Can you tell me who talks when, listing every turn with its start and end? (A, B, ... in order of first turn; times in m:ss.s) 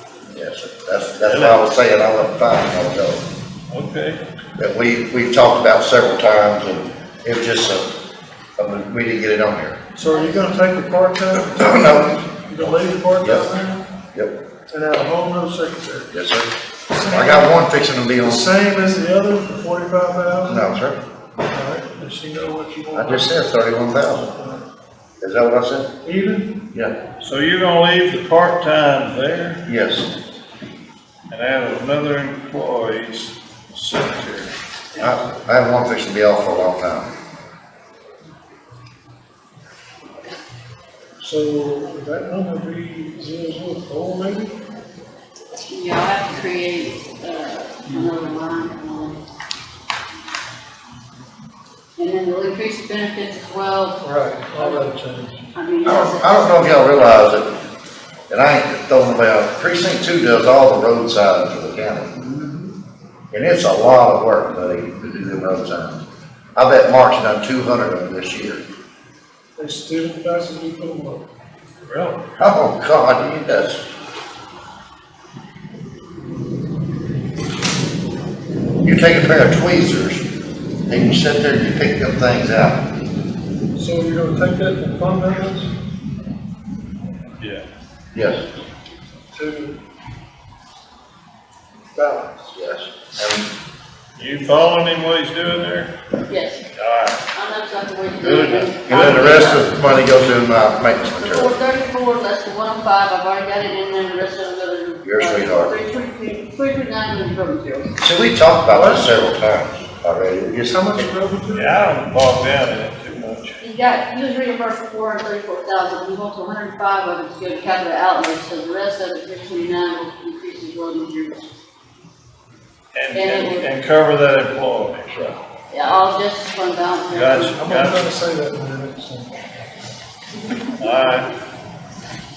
0:00.3-0:03.2 A
0:01.2-0:01.6 B
0:03.7-0:04.2 B
0:04.6-0:07.9 A
0:08.6-0:09.8 A
0:10.0-0:13.8 C
0:11.5-0:12.1 A
0:13.2-0:13.5 A
0:14.7-0:16.1 C
0:16.1-0:16.5 A
0:17.0-0:17.6 C
0:17.0-0:18.5 A
0:18.2-0:20.6 C
0:20.4-0:21.0 A
0:21.5-0:23.4 C
0:22.9-0:24.3 A
0:24.1-0:24.6 C
0:25.2-0:25.9 A
0:26.0-0:26.6 C
0:27.2-0:29.6 B
0:29.7-0:30.1 A
0:31.3-0:34.5 B
0:35.0-0:37.1 A
0:41.2-0:44.6 C
0:45.7-0:49.2 D
0:52.0-0:54.0 D
0:54.0-0:55.4 C
0:54.6-0:54.8 D
0:55.5-0:56.5 D
0:55.8-0:57.5 A
0:58.3-1:02.1 A
1:02.2-1:02.7 C
1:03.3-1:06.0 A
1:06.6-1:08.6 A
1:09.6-1:11.2 C
1:11.8-1:12.2 B
1:12.4-1:13.8 A
1:18.8-1:20.2 A
1:20.9-1:22.8 A
1:23.8-1:25.7 C
1:27.4-1:27.6 B
1:28.1-1:28.4 A
1:29.3-1:29.8 C
1:31.9-1:32.5 C
1:32.5-1:33.5 A
1:34.2-1:35.9 B
1:36.3-1:36.6 D
1:36.7-1:37.2 B
1:37.3-1:39.7 D
1:38.2-1:39.5 B
1:38.9-1:41.6 A
1:41.2-1:47.9 D
1:45.0-1:45.7 A
1:48.0-1:51.1 A
1:48.7-1:49.1 C
1:50.6-1:51.8 C
1:51.5-1:53.6 B
1:53.6-2:01.5 D
2:02.9-2:05.4 B
2:03.1-2:03.7 D
2:05.7-2:07.6 D
2:07.1-2:08.1 B
2:07.6-2:09.3 C
2:10.8-2:11.3 B